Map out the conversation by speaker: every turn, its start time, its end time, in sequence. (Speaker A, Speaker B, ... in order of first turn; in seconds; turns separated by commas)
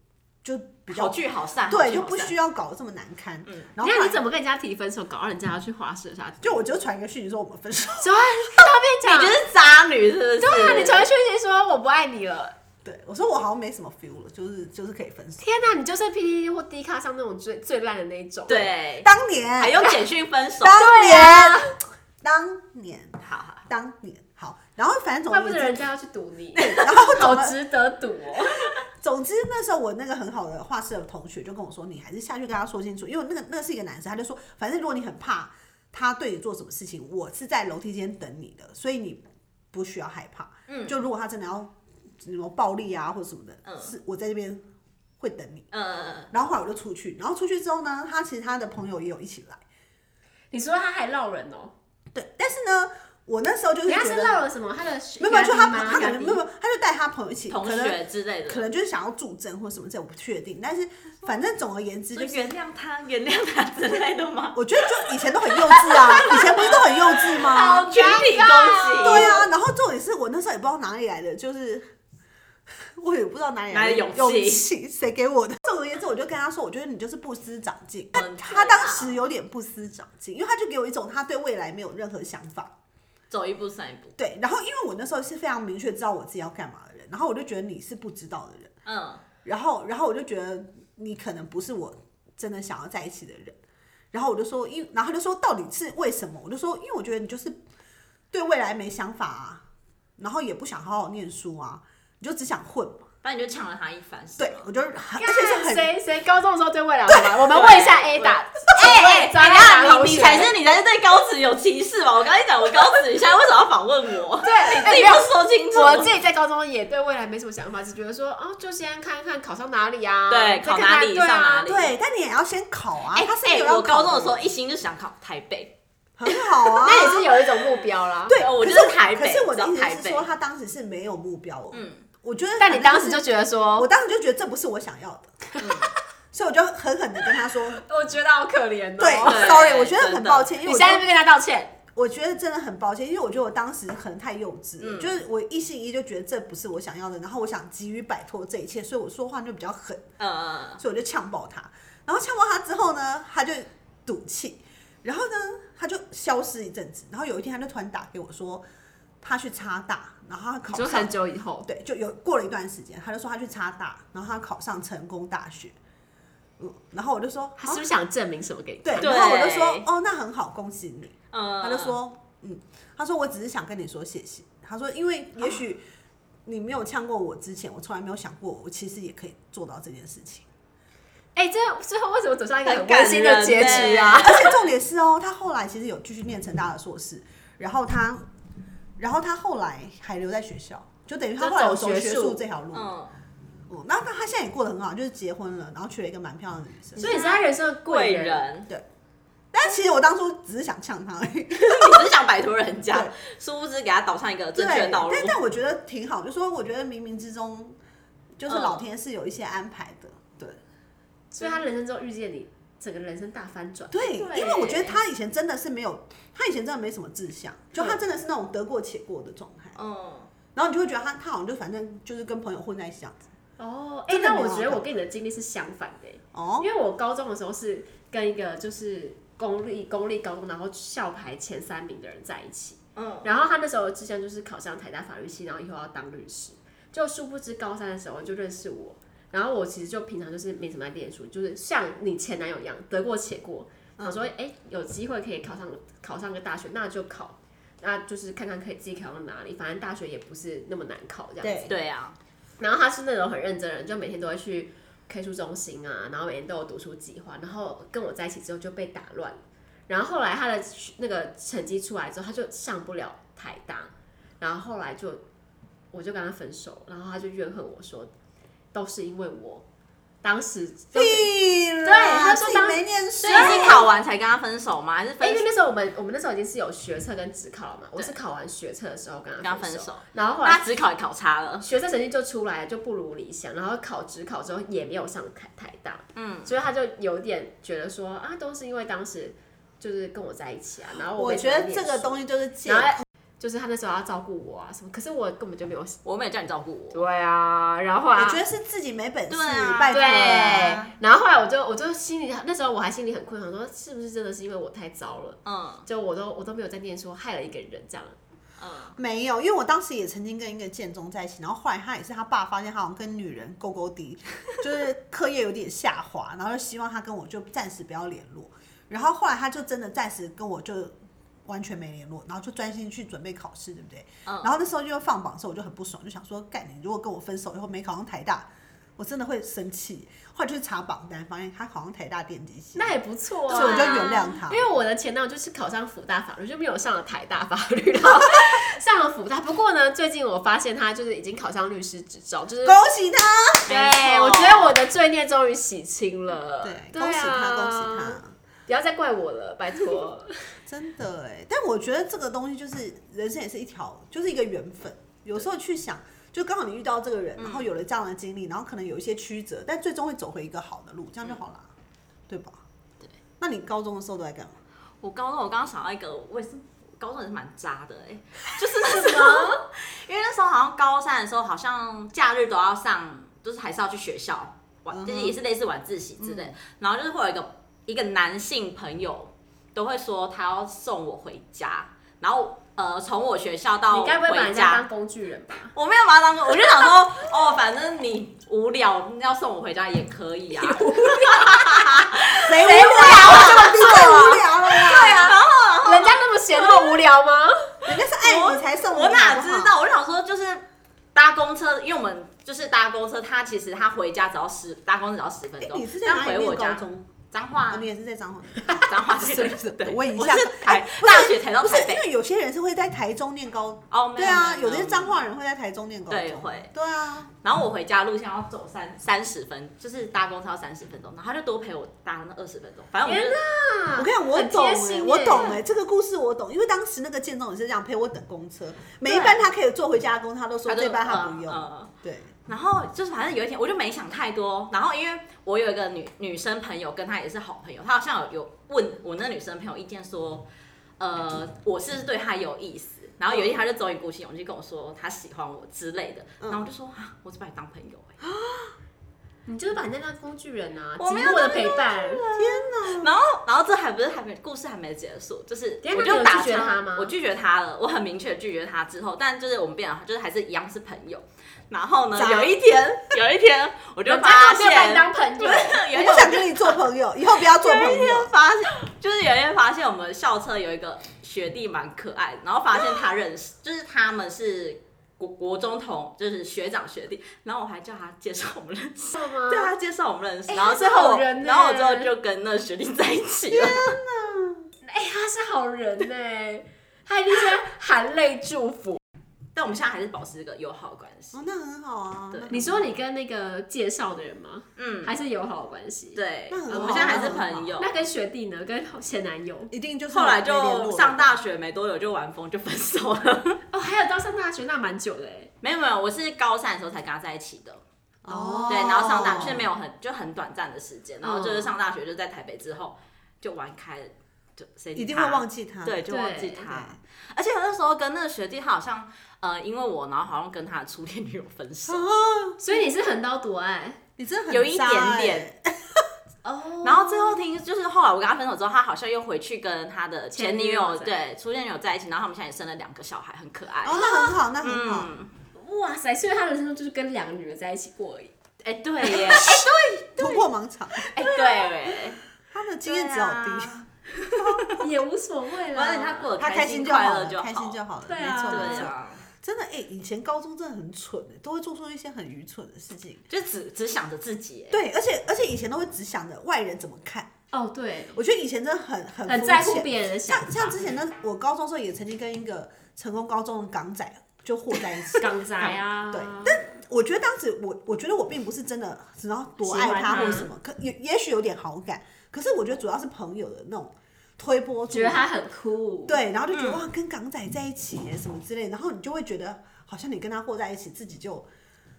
Speaker A: 0.4-4.2, Speaker B: 0.9-2.3, Speaker C: 3.8-6.6, Speaker A: 6.4-8.2, Speaker C: 8.0-9.4, Speaker B: 9.0-11.1, Speaker C: 10.4-12.5, Speaker A: 12.8-15.4, Speaker C: 15.4-18.7, Speaker B: 18.5-20.9, Speaker A: 19.0-19.9, Speaker A: 20.6-25.9, Speaker C: 20.7-21.8, Speaker B: 23.2-23.6, Speaker C: 25.3-28.7, Speaker A: 26.5-27.6, Speaker A: 29.0-44.6, Speaker B: 40.7-41.0, Speaker B: 43.6-43.9, Speaker A: 45.2-45.7, Speaker B: 45.7-46.3, Speaker A: 46.3-49.6, Speaker C: 50.5-51.7, Speaker A: 52.1-54.4, Speaker C: 53.9-56.4, Speaker A: 55.2-62.4, Speaker B: 57.5-58.6, Speaker B: 62.1-69.4, Speaker A: 64.5-67.9, Speaker C: 67.2-69.5, Speaker A: 69.0-71.9, Speaker A: 72.9-82.7, Speaker B: 73.7-74.7, Speaker B: 78.1-79.1, Speaker B: 83.3-84.1, Speaker A: 84.2-88.7, Speaker B: 88.8-89.2, Speaker A: 89.4-93.6, Speaker A: 94.1-97.6, Speaker A: 98.3-99.6, Speaker A: 100.2-103.1, Speaker B: 103.2-104.6, Speaker A: 104.4-105.9, Speaker C: 105.2-110.5, Speaker B: 107.5-116.1, Speaker C: 114.4-121.6, Speaker B: 120.3-121.9, Speaker A: 121.6-124.5, Speaker B: 123.1-125.7, Speaker A: 126.2-127.2, Speaker C: 126.7-128.4, Speaker A: 128.2-135.4, Speaker B: 128.3-130.2, Speaker B: 131.7-132.0, Speaker C: 132.6-133.9, Speaker B: 135.6-135.9, Speaker A: 136.3-137.8, Speaker C: 137.8-139.7, Speaker A: 139.0-141.1, Speaker B: 139.2-140.5, Speaker C: 140.6-141.8, Speaker A: 141.9-150.1, Speaker B: 144.8-145.2, Speaker B: 150.2-150.8, Speaker A: 150.8-158.6, Speaker A: 159.2-165.8, Speaker C: 160.7-161.7, Speaker A: 166.6-167.8, Speaker C: 167.6-169.2, Speaker A: 168.8-175.8, Speaker B: 169.0-169.9, Speaker B: 171.3-172.0, Speaker A: 176.4-180.4, Speaker C: 181.3-184.4, Speaker B: 182.6-184.5, Speaker A: 183.8-188.2, Speaker A: 189.0-192.9, Speaker C: 191.4-192.4, Speaker B: 192.7-193.1, Speaker A: 193.7-197.2, Speaker C: 197.0-198.5, Speaker B: 197.0-198.7, Speaker A: 199.5-202.1, Speaker B: 201.5-205.4, Speaker A: 204.5-207.8, Speaker A: 208.4-210.6, Speaker B: 208.5-208.8, Speaker C: 211.3-214.2, Speaker A: 213.9-219.8, Speaker B: 214.2-215.0, Speaker B: 219.8-220.3, Speaker A: 220.5-223.2, Speaker C: 223.6-251.7, Speaker A: 224.1-224.8, Speaker A: 226.3-226.7, Speaker B: 232.9-233.3, Speaker A: 244.0-244.3, Speaker A: 251.4-251.7, Speaker B: 251.7-252.2, Speaker C: 252.6-265.2, Speaker C: 265.9-268.1, Speaker C: 268.7-269.6, Speaker C: 270.2-273.9, Speaker A: 270.9-273.8, Speaker B: 273.2-275.5, Speaker C: 275.2-280.6, Speaker B: 279.4-281.7, Speaker C: 281.6-296.0, Speaker B: 286.1-286.5, Speaker A: 291.1-293.0, Speaker B: 296.0-297.0, Speaker C: 296.9-298.4, Speaker A: 298.1-300.8, Speaker B: 299.3-300.9, Speaker C: 299.9-308.1, Speaker B: 305.4-305.9, Speaker B: 308.6-308.9, Speaker A: 308.9-332.9, Speaker B: 324.2-324.5, Speaker C: 332.7-342.8, Speaker A: 333.5-334.6, Speaker B: 333.5-334.2, Speaker A: 342.6-343.7, Speaker B: 343.6-344.8, Speaker C: 343.7-350.5, Speaker A: 346.6-348.3, Speaker A: 350.6-361.7, Speaker B: 357.4-357.7, Speaker A: 362.3-362.6, Speaker A: 363.4-364.6, Speaker B: 365.0-384.8, Speaker C: 368.8-369.6, Speaker A: 374.9-375.3, Speaker A: 376.2-376.5, Speaker C: 383.9-385.7, Speaker B: 385.7-397.0, Speaker C: 390.6-391.9, Speaker A: 392.4-395.3, Speaker C: 392.6-397.8, Speaker A: 397.8-399.7, Speaker B: 398.2-400.6, Speaker B: 401.1-407.9, Speaker A: 405.6-417.3, Speaker B: 408.7-412.0, Speaker B: 413.9-415.1, Speaker B: 416.1-416.7, Speaker B: 417.4-423.4, Speaker C: 423.0-425.6, Speaker A: 423.9-432.3, Speaker B: 430.7-431.9, Speaker B: 432.5-440.5, Speaker B: 441.0-448.2, Speaker A: 446.4-446.7, Speaker A: 448.2-448.7, Speaker C: 449.5-452.2, Speaker B: 451.0-466.8, Speaker A: 452.3-453.1, Speaker C: 455.8-457.1, Speaker A: 462.1-462.6, Speaker C: 464.1-465.8, Speaker A: 465.9-468.4, Speaker B: 467.4-484.0, Speaker C: 479.1-479.7, Speaker C: 480.5-482.1, Speaker A: 483.5-484.7, Speaker C: 484.9-489.0, Speaker B: 489.5-491.4, Speaker A: 491.3-492.8, Speaker C: 492.5-499.7, Speaker B: 494.8-495.1, Speaker B: 496.1-497.9, Speaker A: 496.5-497.8, Speaker A: 499.7-501.3, Speaker B: 500.1-503.6, Speaker C: 503.7-505.5, Speaker B: 505.6-507.8, Speaker A: 508.2-509.7, Speaker C: 508.3-509.2, Speaker B: 508.7-522.1, Speaker C: 511.2-511.7, Speaker A: 514.9-516.0, Speaker C: 516.1-516.7, Speaker A: 521.9-522.6, Speaker C: 522.6-524.0, Speaker A: 524.2-526.0, Speaker B: 524.5-525.5, Speaker C: 526.4-527.4, Speaker B: 526.8-535.3, Speaker C: 530.3-531.1, Speaker A: 533.8-535.1, Speaker C: 534.0-534.3, Speaker C: 535.5-538.3, Speaker B: 538.6-539.6, Speaker C: 539.0-540.4, Speaker A: 539.1-541.2, Speaker C: 541.1-541.6, Speaker B: 541.1-542.2, Speaker A: 542.5-544.7, Speaker B: 542.8-544.8, Speaker C: 544.8-546.3, Speaker B: 545.7-547.8, Speaker A: 546.4-553.2, Speaker C: 548.1-548.9, Speaker B: 548.5-549.2, Speaker B: 553.3-554.8, Speaker A: 554.7-557.3, Speaker C: 557.5-558.2, Speaker A: 558.1-565.3, Speaker C: 559.3-560.8, Speaker C: 565.1-566.6, Speaker A: 566.1-575.2, Speaker C: 569.6-570.5, Speaker B: 570.1-570.4, Speaker C: 574.9-576.2, Speaker A: 576.1-581.5, Speaker B: 576.5-576.8